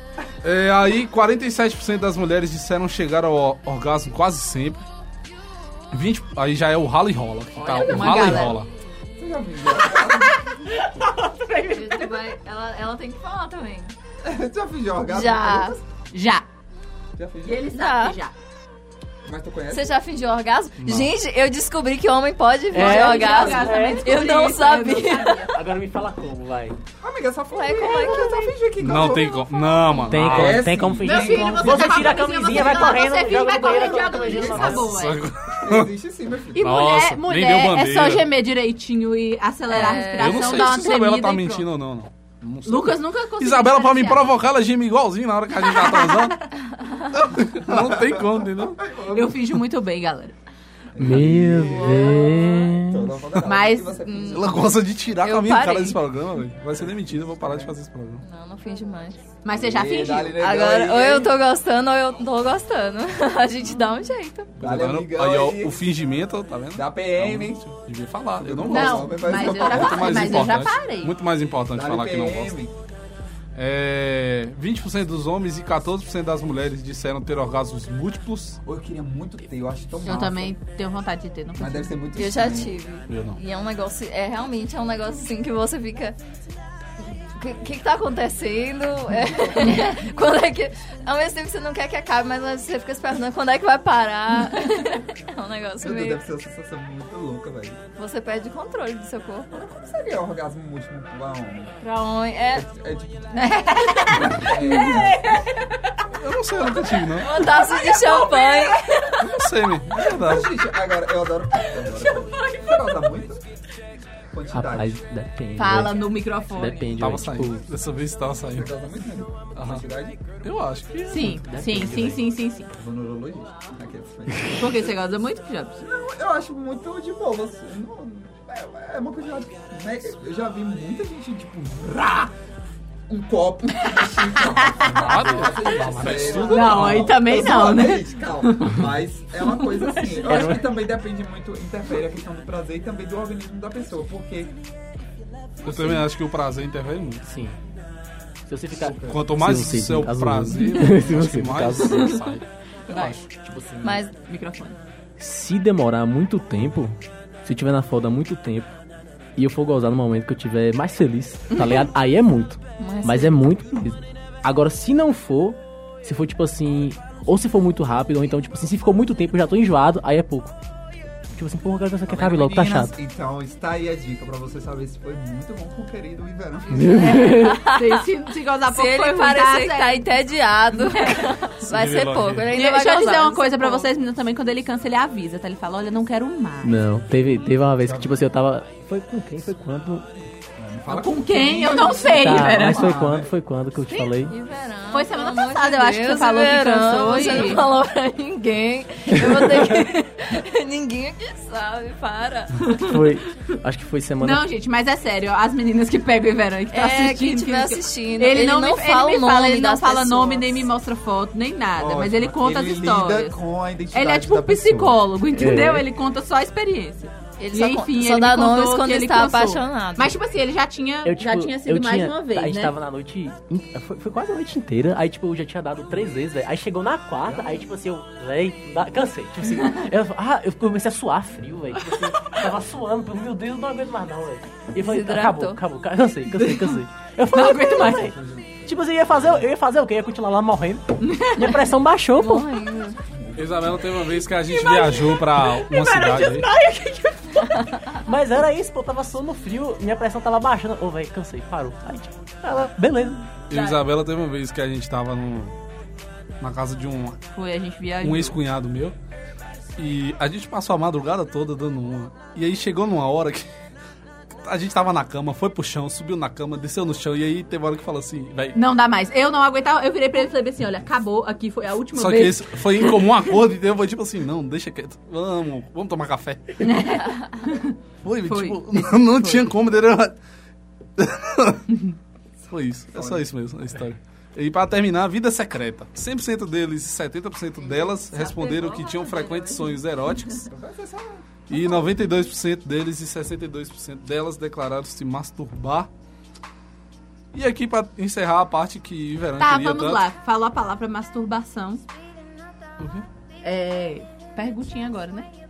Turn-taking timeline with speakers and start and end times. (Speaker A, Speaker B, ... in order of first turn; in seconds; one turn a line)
Speaker A: 0.4-4.9
Speaker A: 5.9-8.7
Speaker B: 7.6-8.6
Speaker C: 7.7-8.6
Speaker B: 9.2-10.7
Speaker C: 9.9-12.3
Speaker D: 11.7-13.9
Speaker B: 14.2-15.8
Speaker D: 15.1-15.8
Speaker C: 16.1-16.4
Speaker B: 17.2-17.7
Speaker C: 17.4-18.3
Speaker D: 17.7-18.2
Speaker B: 19.2-19.9
Speaker D: 19.7-25.5
Speaker A: 20.8-21.1
Speaker C: 22.7-25.5
Speaker E: 22.7-24.4
Speaker B: 23.0-23.4
Speaker E: 25.5-26.8
Speaker B: 27.0-32.9
Speaker D: 27.5-28.5
Speaker A: 28.8-30.7
Speaker D: 29.7-30.1
Speaker E: 30.1-34.9
Speaker C: 31.0-35.2
Speaker B: 34.1-34.8
Speaker A: 34.6-35.9
Speaker B: 35.6-36.7
Speaker C: 36.5-41.7
Speaker A: 36.6-38.3
Speaker D: 39.7-40.8
Speaker A: 39.9-46.4
Speaker C: 42.6-44.5
Speaker C: 45.6-46.3
Speaker D: 46.8-47.1
Speaker A: 47.1-48.9
Speaker B: 47.6-49.5
Speaker C: 49.1-50.4
Speaker B: 50.9-54.8
Speaker E: 51.0-53.1
Speaker A: 51.1-52.0
Speaker C: 53.4-54.3
Speaker A: 54.3-58.2
Speaker D: 55.2-56.0
Speaker B: 56.6-57.7
Speaker D: 58.2-59.2
Speaker C: 59.4-60.4
Speaker B: 59.5-61.3
Speaker D: 60.4-64.5
Speaker B: 64.6-65.8
Speaker A: 64.6-72.5
Speaker B: 66.7-67.7
Speaker B: 68.4-70.5
Speaker C: 68.7-71.2
Speaker B: 71.7-72.7
Speaker A: 73.5-78.6
Speaker B: 78.7-80.5
Speaker C: 80.0-82.0
Speaker B: 81.5-82.8
Speaker D: 82.2-86.2
Speaker A: 83.1-83.4
Speaker D: 87.3-96.2
Speaker B: 89.2-90.0
Speaker B: 95.8-97.8
Speaker D: 98.0-99.5
Speaker B: 99.5-101.8
Speaker D: 101.8-102.7
Speaker B: 102.5-105.5
Speaker C: 103.3-106.0
Speaker A: 106.2-107.3
Speaker C: 106.9-109.3
Speaker D: 107.2-108.8
Speaker A: 109.2-110.5
Speaker B: 110.0-113.4
Speaker C: 111.8-113.0
Speaker B: 114.3-115.0
Speaker E: 114.5-117.7
Speaker C: 115.6-117.1
Speaker A: 117.0-118.7
Speaker B: 118.5-120.4
Speaker A: 119.6-119.8
Speaker A: 120.4-121.4
Speaker C: 121.1-122.7
Speaker E: 121.2-122.2
Speaker B: 122.7-124.9
Speaker C: 124.5-125.8
Speaker B: 125.8-132.3
Speaker B: 133.1-144.5
Speaker C: 134.1-135.5
Speaker A: 134.9-137.2
Speaker C: 136.4-138.8
Speaker C: 139.5-140.5
Speaker E: 140.3-140.7
Speaker A: 145.6-147.2
Speaker B: 145.6-146.0
Speaker E: 147.3-147.6
Speaker E: 148.5-152.2
Speaker B: 148.7-149.3
Speaker A: 149.0-153.2
Speaker C: 150.6-150.9
Speaker C: 151.8-152.2
Speaker C: 152.9-153.2
Speaker E: 153.4-154.0
Speaker D: 153.8-154.1
Speaker C: 154.3-154.8
Speaker E: 155.2-158.8
Speaker E: 159.4-170.6
Speaker C: 161.6-161.9
Speaker D: 162.8-163.4
Speaker E: 171.3-172.9
Speaker B: 172.1-177.0
Speaker E: 176.7-177.6
Speaker C: 176.8-180.2
Speaker D: 177.2-178.0
Speaker D: 178.7-183.9
Speaker C: 180.7-181.3
Speaker A: 181.7-182.5
Speaker C: 182.5-186.8
Speaker E: 186.6-190.1
Speaker B: 187.8-188.3
Speaker B: 190.6-193.3
Speaker C: 190.9-193.0
Speaker E: 192.1-194.3
Speaker D: 194.3-202.5
Speaker C: 194.9-197.7
Speaker E: 199.2-199.7
Speaker C: 202.6-203.1
Speaker E: 202.9-204.5
Speaker C: 204.2-213.4
Speaker D: 206.7-210.7
Speaker B: 211.8-215.0
Speaker C: 213.9-222.7
Speaker E: 215.3-215.9
Speaker D: 217.4-220.1
Speaker E: 221.0-238.1
Speaker B: 227.2-227.7
Speaker D: 234.8-235.6
Speaker C: 236.3-236.8
Speaker C: 237.3-238.1
Speaker B: 237.8-239.5
Speaker E: 238.7-242.6
Speaker C: 241.0-241.6
Speaker D: 242.2-243.0
Speaker B: 243.0-244.2
Speaker A: 243.4-246.5
Speaker C: 244.5-247.9
Speaker E: 248.1-253.2
Speaker A: 253.5-255.5
Speaker C: 253.5-253.9
Speaker A: 256.4-257.2
Speaker C: 257.3-258.4
Speaker A: 258.0-258.9
Speaker A: 259.8-263.5
Speaker A: 264.4-268.6
Speaker C: 268.6-273.3
Speaker A: 271.9-276.5
Speaker C: 276.6-279.5
Speaker A: 278.0-280.2
Speaker A: 281.0-281.6
Speaker B: 282.4-283.3
Speaker A: 282.5-290.4
Speaker D: 287.6-289.7
Speaker B: 290.5-291.9
Speaker A: 291.5-295.9
Speaker A: 297.3-300.0
Speaker C: 299.4-301.8
Speaker A: 302.8-303.0
Speaker C: 303.4-305.3